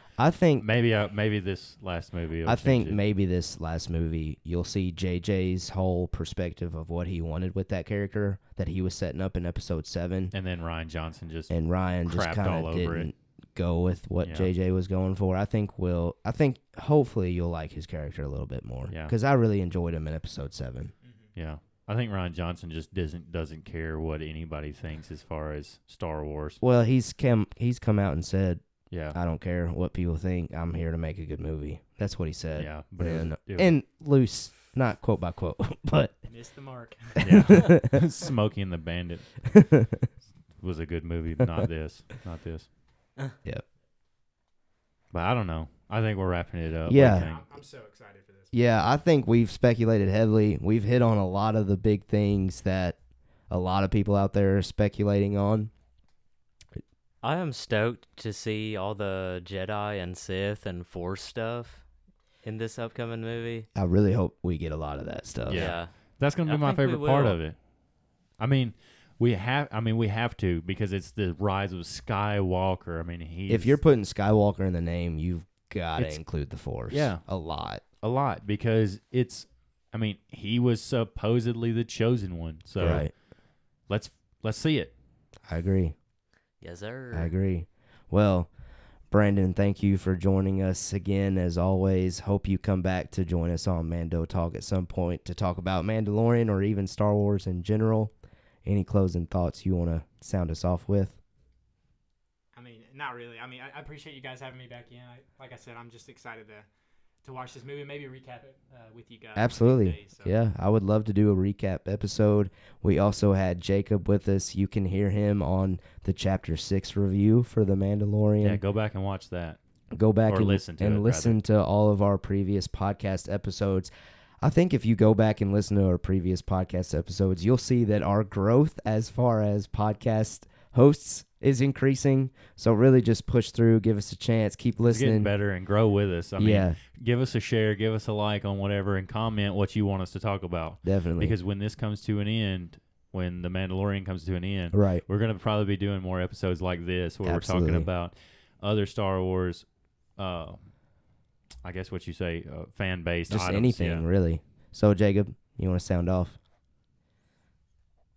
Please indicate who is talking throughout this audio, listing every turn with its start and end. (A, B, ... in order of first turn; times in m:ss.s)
0:00.2-0:00.6 A
0:00.6-0:03.0 B
0:02.4-0:10.3 A
0:10.3-0:11.5 B
0:11.5-0:20.9 A
0:12.0-0:13.1 B
0:14.2-0:14.5 B
0:18.9-0:19.1 B
0:21.0-0:21.3 C
0:21.3-0:26.6 B
0:26.6-0:36.2 A
0:28.9-0:29.2 B
0:32.6-0:33.7 B
0:36.2-0:37.2 C
0:37.2-0:38.0 A
0:37.2-0:39.5 B
0:39.5-0:40.0 A
0:40.6-0:42.7 B
0:45.1-0:47.4 B
0:46.8-0:47.3 A
0:47.0-0:48.5 C
0:48.5-0:53.0 A
0:53.5-0:55.7 A
0:57.2-1:01.8 D
1:02.4-1:03.7 D
1:03.7-1:05.7 A
1:05.5-1:07.6 B
1:05.5-1:05.9 D
1:06.4-1:07.4 D
1:08.4-1:13.8 B
1:13.5-1:17.8 A
1:16.0-1:16.2 B
1:16.9-1:17.2 B
1:18.0-1:23.1 B
1:22.8-1:23.1 A
1:23.9-1:24.9 B
1:25.5-1:25.9 A
1:26.6-1:27.3 D
1:27.1-1:28.5 A
1:29.1-1:38.1 A
1:38.6-1:41.2 A
1:42.5-1:46.7 C
1:47.2-1:50.4 C
1:49.4-1:58.6 A
1:58.4-1:59.6 B
1:59.9-2:03.9 A
2:00.3-2:01.4 B
2:04.4-2:15.3 A
2:14.8-2:30.7 B
2:16.4-2:16.8 A
2:20.8-2:21.3 A
2:24.7-2:25.0 A
2:27.2-2:27.9 A
2:31.6-2:34.0 B
2:33.3-2:36.4 A